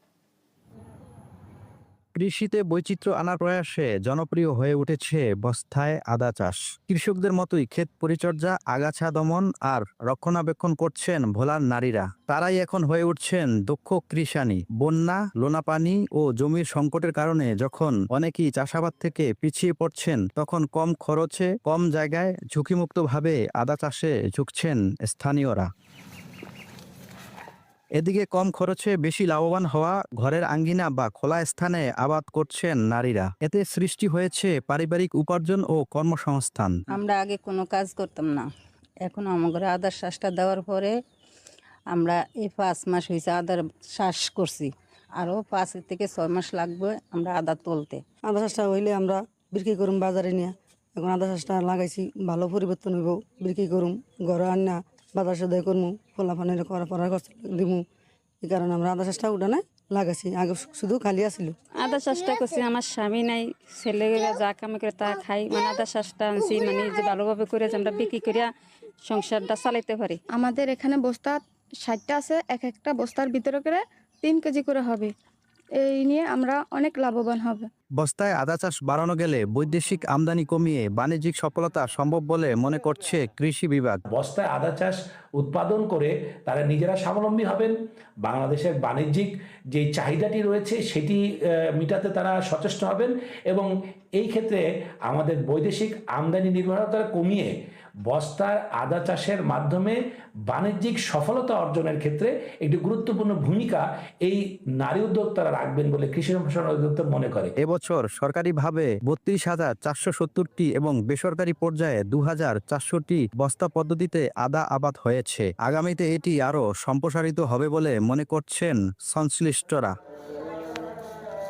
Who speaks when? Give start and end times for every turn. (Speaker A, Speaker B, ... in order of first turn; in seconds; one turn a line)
Speaker A: 2.1-25.7
Speaker A: 28.0-36.8
Speaker B: 36.9-38.5
Speaker B: 39.0-40.9
Speaker B: 41.9-48.0
Speaker C: 48.2-57.8
Speaker C: 58.4-61.5
Speaker D: 61.8-68.5
Speaker D: 69.0-70.2
Speaker E: 70.3-75.1
Speaker E: 75.8-77.7
Speaker A: 78.0-84.0
Speaker F: 84.1-87.7
Speaker F: 88.2-91.2
Speaker F: 91.8-97.5
Speaker F: 98.1-100.0
Speaker F: 100.5-107.5
Speaker A: 107.6-119.9